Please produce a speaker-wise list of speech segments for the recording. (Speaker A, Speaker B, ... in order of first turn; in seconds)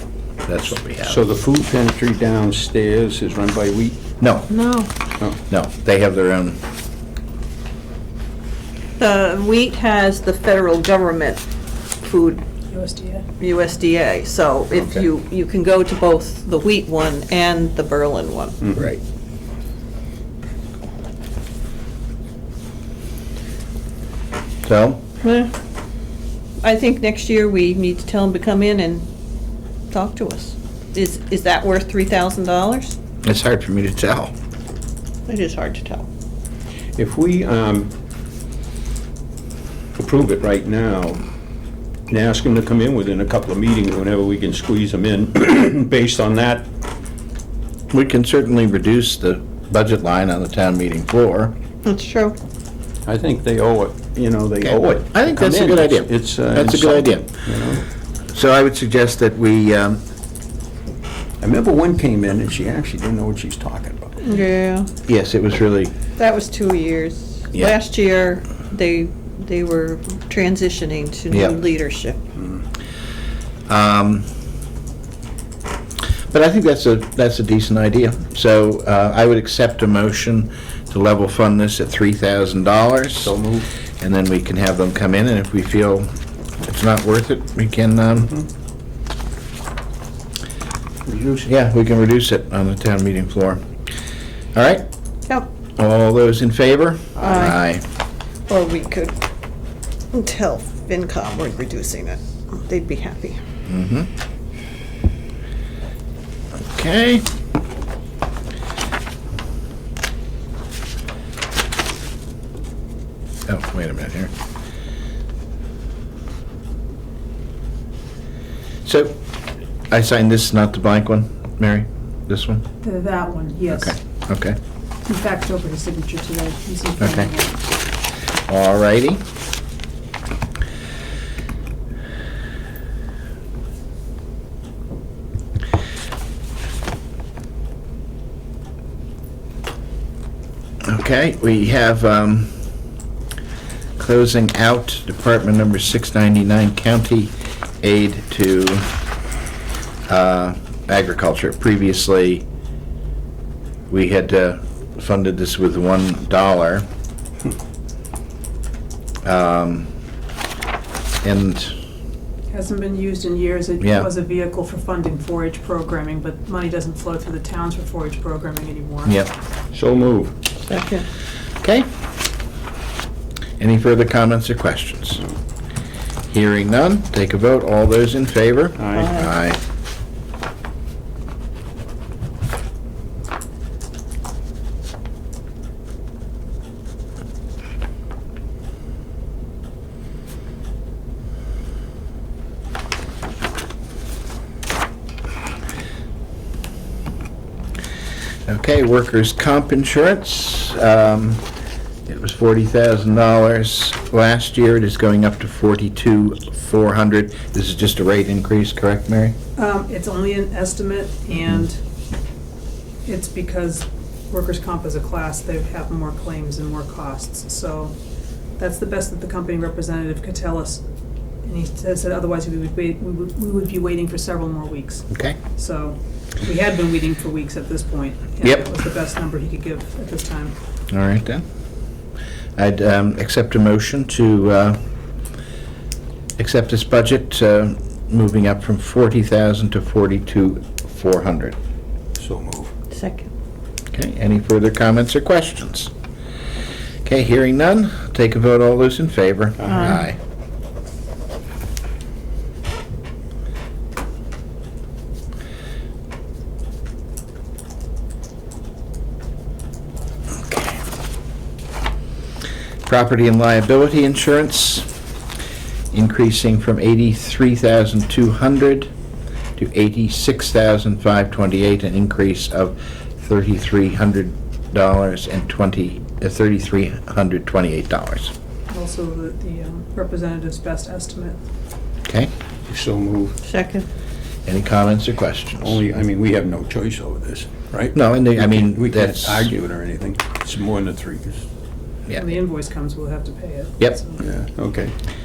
Speaker A: 0.5-1.2, 4.2-4.5, 5.5-6.6, 24.6-25.0, 33.2-34.3, 47.9-51.5, 54.6-57.3, 58.3-60.0, 65.1-66.0, 71.3-71.6, 73.7-74.3, 76.3-83.3, 84.0-88.3, 91.4-93.7, 94.5-94.9, 95.8-97.8, 103.7-104.1, 106.6-107.3, 113.5-114.3, 118.8-119.2, 119.9-122.7, 123.7-124.6, 127.0-127.3, 128.5-129.2, 140.8-142.6, 144.0-148.9, 150.1-152.5, 153.9-156.9, 159.2-159.9, 161.2-161.8, 163.8-164.1, 169.1-169.3, 171.6-171.9, 173.6-175.2, 176.3-179.6, 198.5-201.4, 202.1-209.4, 225.1-225.4, 230.9-231.4, 232.6-234.8, 236.4-241.6, 243.9-245.9, 247.1-250.2, 260.4-260.8, 262.9-264.9, 265.9-268.9, 269.6-278.3, 282.1-282.3, 284.5-285.9, 287.9-289.5
Speaker B: 1.0-4.0, 14.8-15.0, 37.0-37.9, 40.0-41.2, 42.1-46.7, 53.1-57.8, 61.4-64.2, 83.2-83.7, 91.1-91.4, 169.7-170.3, 178.8-179.2, 242.2-242.7, 282.7-283.4, 285.6-291.5, 294.2-294.9
Speaker C: 4.5-4.9, 9.0-11.4, 12.0-12.4, 13.4-18.6, 25.2-25.5, 26.6-29.1, 29.9-33.0, 35.3-36.1, 51.9-52.4, 64.2-64.9, 66.2-72.2, 97.2-97.6, 98.5-99.2, 100.1-103.4, 170.6-171.1, 178.9-179.3, 242.9-243.3, 249.7-250.0, 283.4-283.9
Speaker D: 12.7-13.3, 122.8-124.0, 125.1-127.6, 162.5-169.1, 209.6-211.8, 213.1-217.9, 218.6-220.8, 221.4-230.6, 278.7-281.4, 292.1-294.2